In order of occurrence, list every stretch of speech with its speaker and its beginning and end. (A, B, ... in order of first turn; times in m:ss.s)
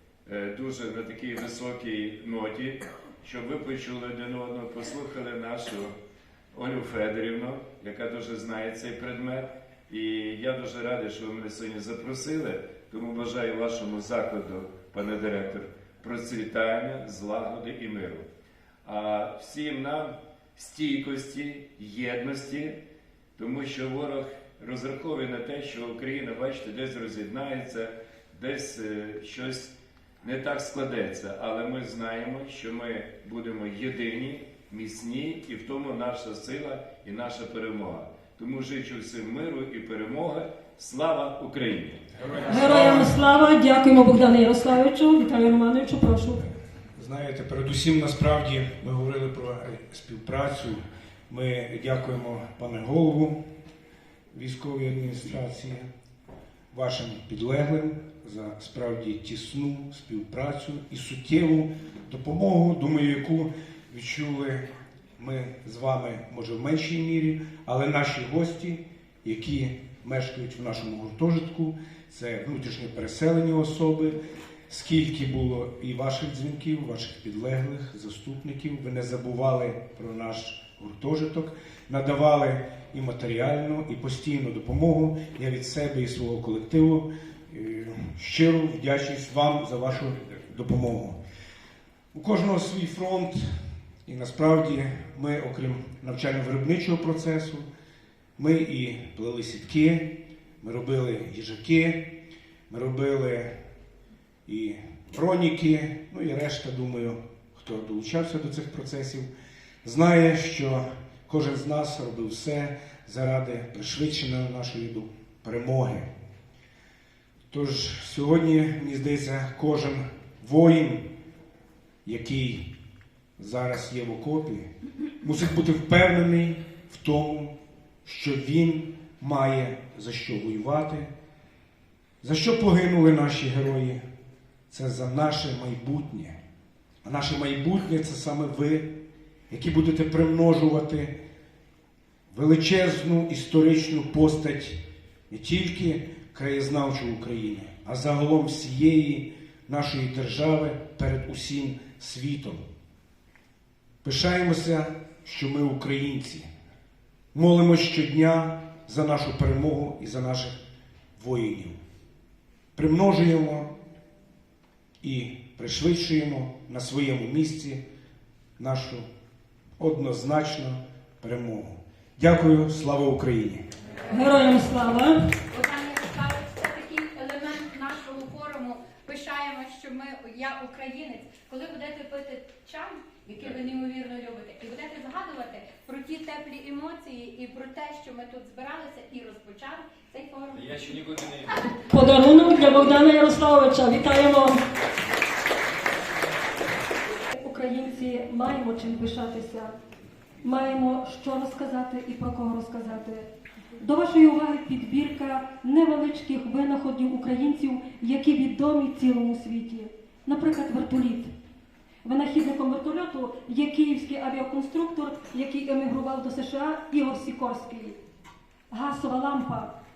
0:00.3-0:06.0 A
0:06.5-0:18.3 A
0:18.8-0:22.8 A
0:23.4-0:42.1 A
0:42.2-0:43.2 B
0:42.5-0:46.4 C
0:47.0-0:53.4 B
0:54.3-0:55.9 B
0:56.7-1:31.2 B
1:30.0-1:30.4 A
1:32.1-1:33.4 B
1:34.1-1:37.7 B
1:38.4-1:42.2 B
1:42.7-1:43.5 B
1:44.5-1:49.3 B
1:49.8-1:56.1 B
1:57.5-2:01.0 B
2:02.0-2:02.6 B
2:03.4-2:04.7 B
2:05.2-2:07.5 B
2:08.0-2:11.1 B
2:12.2-2:14.0 B
2:14.7-2:16.4 B
2:17.0-2:18.9 B
2:19.5-2:21.1 B
2:22.3-2:24.8 B
2:25.3-2:32.6 B
2:34.0-2:36.5 B
2:37.3-2:40.6 B
2:41.2-2:41.8 B
2:42.8-2:43.7 B
2:45.0-2:47.8 B
2:48.6-2:49.1 B
2:49.8-2:53.6 B
2:54.1-2:55.2 C
2:55.5-3:10.8 D
3:03.4-3:03.6 A
3:10.5-3:11.7 A
3:11.9-3:14.6 C
3:17.3-3:19.7 C
3:20.4-3:23.3 C
3:23.8-3:31.3 C
3:32.0-3:38.0 C
3:38.7-3:39.7 C